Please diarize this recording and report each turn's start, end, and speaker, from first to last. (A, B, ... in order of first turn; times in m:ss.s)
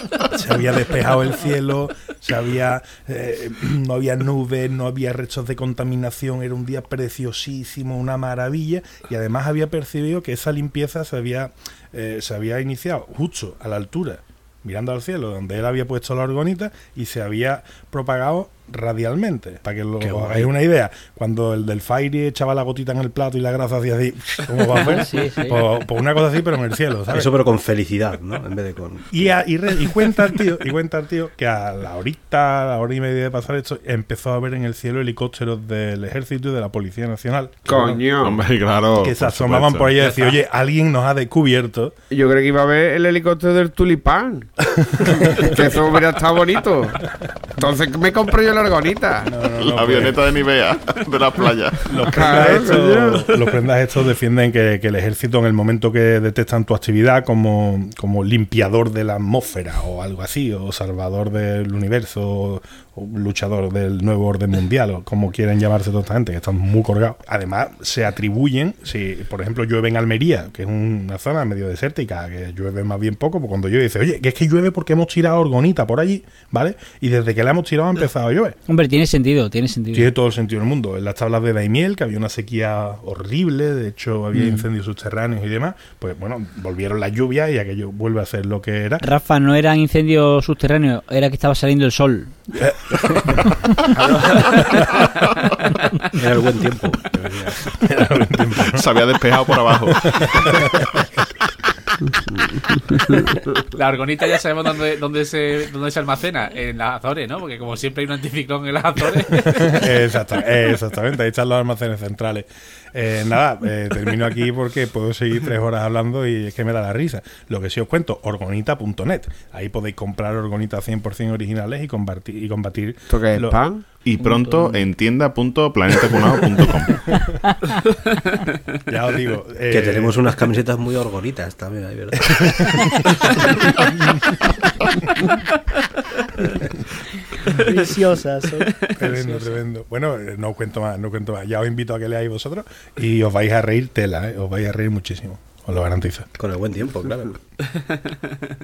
0:00.2-0:27.3 A
0:20.0-0:20.5 B
0:24.8-0:25.6 C
0:27.1-0:29.4 B
0:29.1-0:38.0 A
0:37.7-0:38.5 D
0:38.2-0:39.9 E
0:39.0-0:41.9 A
0:40.0-0:40.4 F
0:42.1-0:49.3 D
0:44.8-0:45.5 A
0:49.2-0:50.2 A
0:49.6-0:52.1 E
0:51.9-1:18.6 A
0:52.1-0:53.3 D
1:18.7-1:20.1 C
1:19.9-1:29.0 A
1:24.3-1:24.7 C
1:29.0-1:32.4 C
1:32.5-1:34.9 A
1:36.1-1:37.7 B
1:37.7-1:38.8 A
1:38.6-1:40.5 E
1:40.0-1:41.0 A
1:42.3-1:43.3 D
1:43.7-1:49.8 F
1:49.3-2:03.6 A
2:03.1-2:03.9 D
2:04.0-2:07.1 E
2:04.2-2:04.8 C
2:08.9-2:10.2 A
2:09.7-2:12.6 B
2:12.3-2:13.0 A
2:17.4-2:19.6 C
2:19.0-2:26.3 A
2:26.4-2:27.4 B